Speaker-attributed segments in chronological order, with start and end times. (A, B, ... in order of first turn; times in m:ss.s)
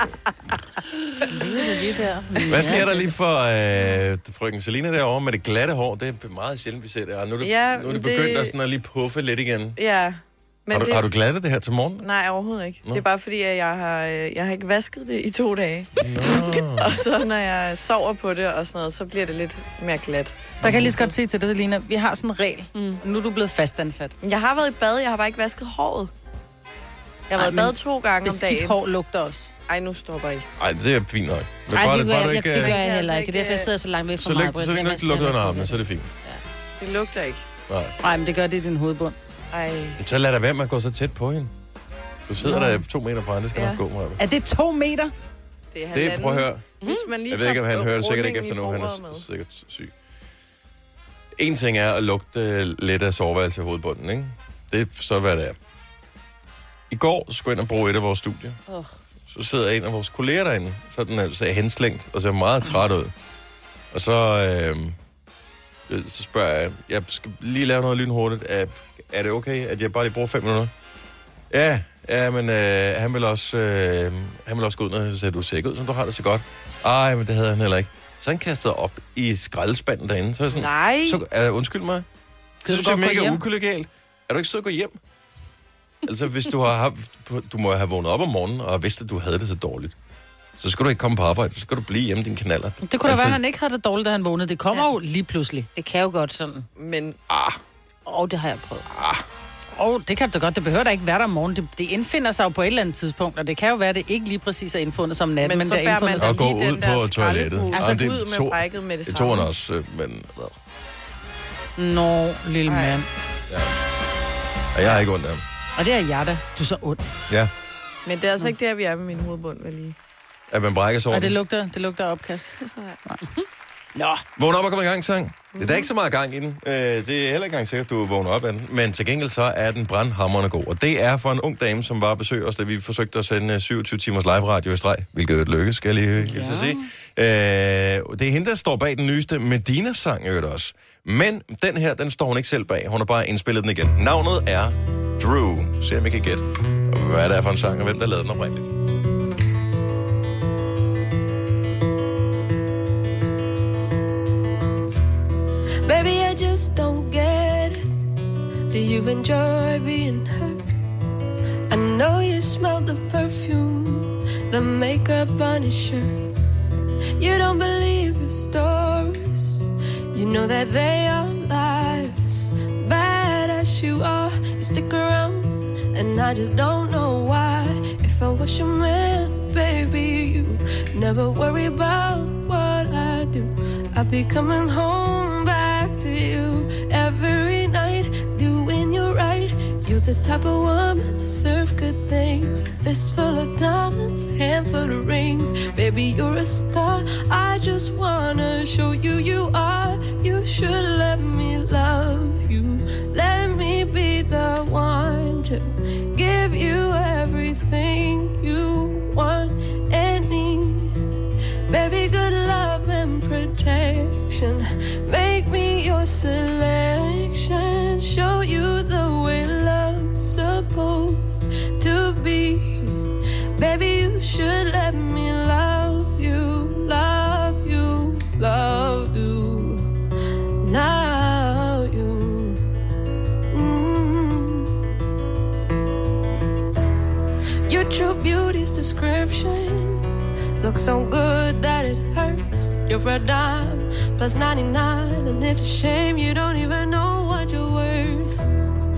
0:01.2-0:03.0 A
0:01.3-0:01.8 B
0:02.5-0:09.8 C
0:07.4-0:08.5 D
0:09.8-0:11.1 D
0:10.7-0:12.1 C
0:12.0-0:20.5 D
0:16.0-0:17.0 C
0:20.6-0:21.0 C
0:20.6-0:24.2 B
0:22.8-0:23.0 A
0:24.2-0:26.1 D
0:27.3-0:29.5 B
0:27.3-0:28.8 D
0:29.7-0:30.5 D
0:30.6-0:32.8 C
0:31.7-0:36.4 A
0:32.5-0:33.7 D
0:34.2-0:36.1 C
0:36.8-0:37.5 D
0:37.7-0:37.9 C
0:38.0-0:39.2 B
0:39.5-0:40.0 D
0:40.0-0:41.5 C
0:42.2-0:44.2 C
0:42.4-0:42.8 B
0:43.5-0:43.8 D
0:44.2-0:45.1 B
0:45.7-0:49.3 D
0:45.9-0:46.8 C
0:47.3-0:49.9 C
0:51.4-0:55.6 C
0:56.9-0:58.6 C
0:59.3-1:03.1 C
1:03.9-1:05.0 C
1:05.9-1:10.7 C
1:11.5-1:22.1 C
1:20.5-1:21.2 D
1:22.6-1:25.0 C
1:22.6-1:23.4 B
1:26.1-1:30.0 C
1:30.6-1:33.4 C
1:32.8-1:35.7 B
1:35.8-1:36.7 A
1:36.8-1:37.2 D
1:37.3-1:37.6 C
1:38.1-1:38.9 A
1:38.9-1:39.2 C
1:39.8-1:46.4 B
1:45.4-1:49.5 D
1:46.2-1:50.6 C
1:51.8-1:53.1 B
1:52.7-1:53.0 D
1:54.7-1:55.4 C
1:55.8-1:57.0 B
1:58.0-2:00.0 D
2:00.5-2:01.4 C
2:01.1-2:03.2 B
2:02.6-2:03.0 D
2:04.0-2:04.2 B
2:04.4-2:28.7 C
2:05.6-2:05.9 D
2:16.3-2:16.6 B
2:35.8-2:37.8 E
2:38.7-2:40.6 E
2:41.7-2:46.2 E
2:47.2-3:31.0 E
3:31.7-3:43.0 E
3:43.6-3:49.9 E
3:50.6-3:52.6 E
3:53.5-3:54.8 E
3:57.7-4:00.1 E
4:00.6-4:08.5 E